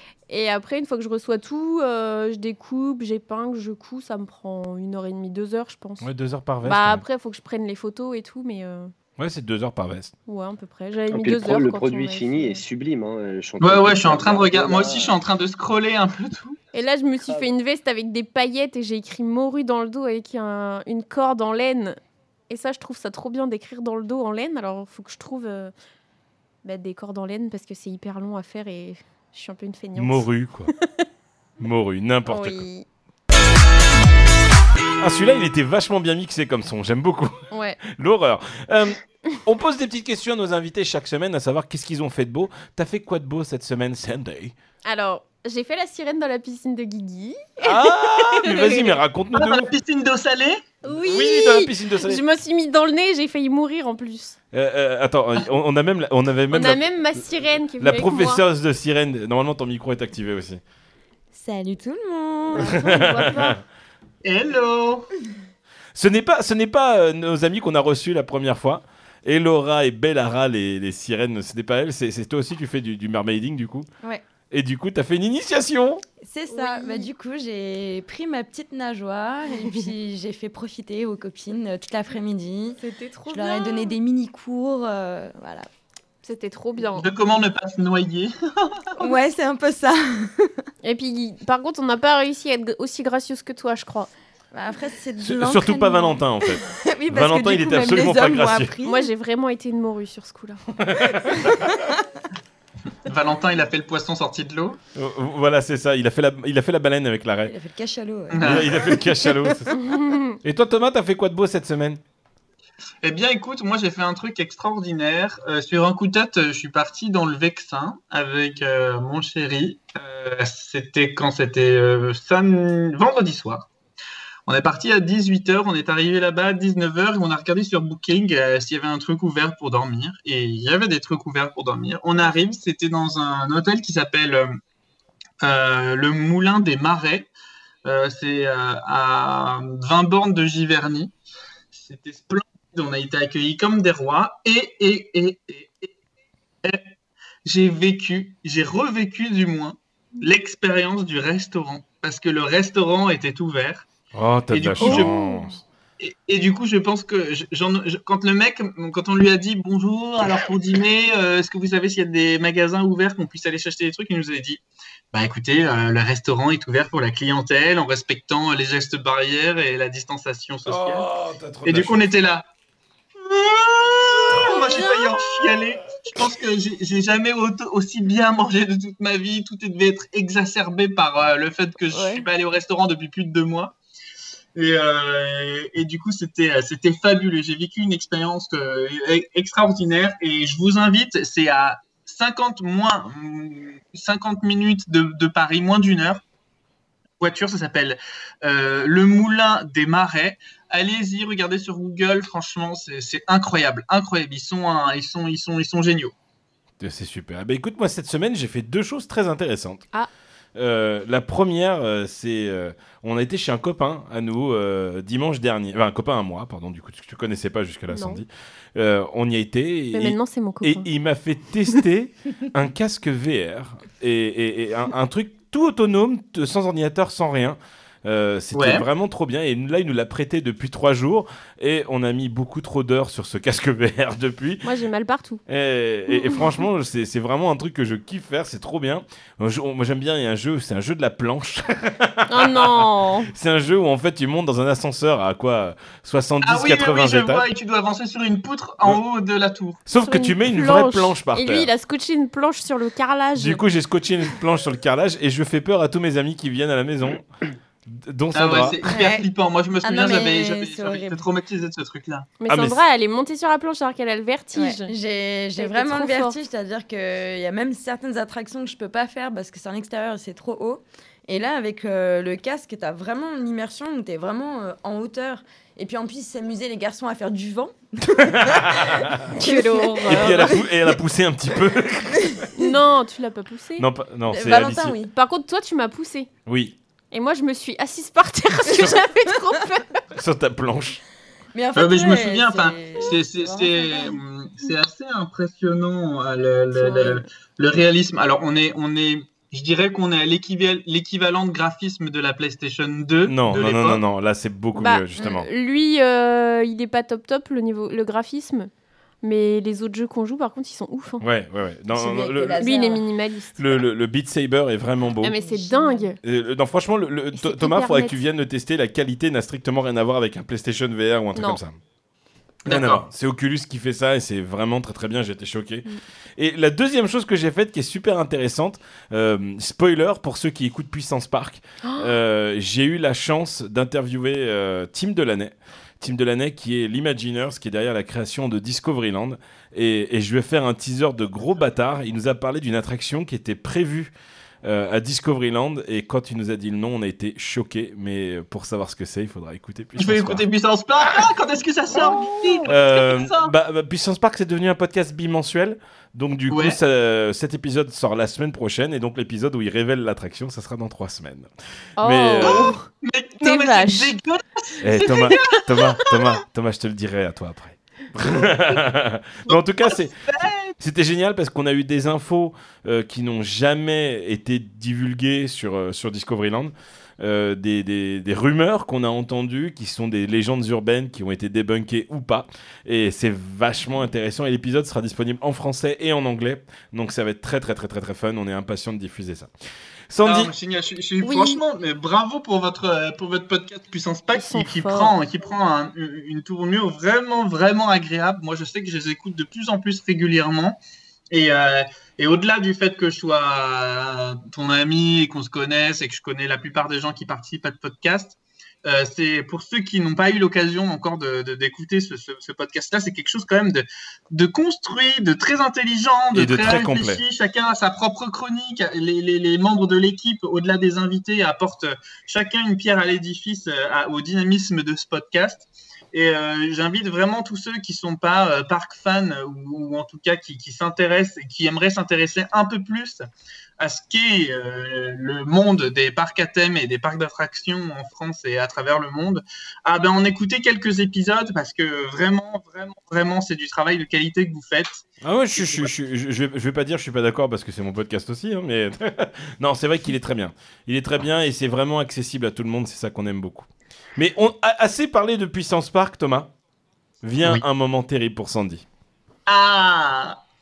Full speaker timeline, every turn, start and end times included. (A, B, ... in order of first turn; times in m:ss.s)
0:00.3-0:06.1 A
0:06.0-0:07.0 B
0:06.6-0:08.9 A
0:09.2-0:10.1 B
0:10.3-0:12.6 A
0:11.1-0:15.2 C
0:13.6-0:16.6 D
0:16.7-0:22.0 A
0:22.5-0:25.7 A
0:26.6-0:30.3 A
0:30.0-0:30.7 B
0:30.8-0:31.0 A
0:31.6-0:32.6 B
0:32.3-0:32.9 A
0:35.0-0:44.5 B
0:37.5-0:37.8 A
0:44.8-0:49.0 A
0:47.6-0:49.7 B
0:49.3-0:50.7 D
0:50.8-0:54.4 A
0:50.9-0:52.2 B
0:54.5-0:56.9 B
0:56.5-0:58.4 A
0:57.8-1:00.6 B
1:01.3-1:02.8 E
1:02.5-1:03.6 A
1:02.7-1:03.6 B
1:04.2-1:05.1 D
1:06.0-1:13.9 B
1:14.5-1:16.0 B
1:16.2-1:25.7 E
1:16.5-1:17.1 A
1:22.8-1:24.0 A
1:26.2-1:27.1 A
1:27.0-1:28.9 D
1:29.0-1:30.6 E
1:30.8-1:34.1 A
1:34.5-1:39.1 E
1:35.2-1:38.7 B
1:38.8-1:40.6 A
1:40.8-1:41.7 B
1:43.1-1:44.8 D
1:45.0-1:47.5 B
1:47.5-1:49.5 E
1:48.3-1:48.8 D
1:48.4-1:49.8 B
1:49.7-1:50.4 A
1:50.4-1:52.0 B
1:53.0-2:03.7 D
2:04.5-2:14.6 D
2:15.4-2:17.3 D
2:17.8-2:21.1 D
2:21.7-2:25.9 D
2:27.4-2:33.9 D
2:34.1-2:35.6 B
2:34.5-2:35.2 D
2:34.8-2:35.4 A
2:36.0-2:44.6 D
2:45.1-2:51.1 D
2:50.7-2:52.0 B
2:51.6-2:52.5 D
2:53.2-3:03.8 D
2:54.5-2:55.1 A
3:02.0-3:02.2 E
3:04.6-3:16.2 D
3:17.2-3:26.1 D
3:26.8-3:29.8 B
3:30.6-3:54.6 B
3:37.9-3:38.2 A
3:39.9-3:40.9 A
3:48.5-3:48.8 D
3:54.6-3:55.4 A
3:55.5-4:07.4 B
3:56.1-3:56.4 A
4:02.3-4:03.3 A
4:06.4-4:09.8 D
4:09.9-4:11.7 B
4:10.0-4:13.6 A
4:13.4-4:17.3 B
4:17.9-4:18.8 B
4:18.3-4:22.3 D
4:18.9-4:19.3 E
4:19.8-4:21.2 E
4:22.4-4:24.9 A
4:22.5-4:22.8 B
4:24.6-4:40.7 E
4:25.6-4:26.4 A
4:38.2-4:39.3 B
4:39.4-4:40.6 A
4:40.1-4:42.5 B
4:42.2-4:42.6 E
4:42.6-4:43.9 A
4:43.8-4:45.0 B
4:44.3-4:45.1 E
4:45.1-4:46.3 A
4:46.5-4:46.8 B
4:47.1-4:50.0 A
4:50.1-4:51.0 B
4:51.5-4:54.2 E
4:51.8-5:04.0 D
4:56.8-4:57.2 E
5:03.3-5:05.5 B
5:04.8-5:08.7 A
5:09.2-5:11.2 A
5:11.2-5:12.6 B
5:11.9-5:13.0 E
5:12.6-5:13.8 A
5:13.6-5:15.4 B
5:15.2-5:16.2 A
5:15.4-5:16.1 E
5:16.2-5:21.8 B
5:17.3-5:18.2 A
5:21.4-5:21.6 A
5:22.7-5:23.0 D
5:22.7-5:25.8 B
5:26.4-5:44.1 B
5:31.8-5:32.1 A
5:44.6-5:50.4 B
5:50.0-5:53.5 D
5:52.7-6:02.8 B
5:56.5-5:56.8 D
6:02.0-6:02.9 A
6:02.4-6:06.1 D
6:03.4-6:04.2 A
6:04.8-6:10.1 B
6:08.3-6:08.8 D
6:09.5-6:10.8 D
6:10.8-6:29.5 B
6:30.1-6:30.5 B
6:30.2-6:40.8 D
6:31.2-6:31.6 A
6:34.3-6:35.2 A
6:41.3-7:13.2 D
6:56.3-6:57.2 B
7:13.8-7:25.9 D
7:25.2-7:36.5 B
7:37.2-7:38.8 B
7:39.5-7:40.4 D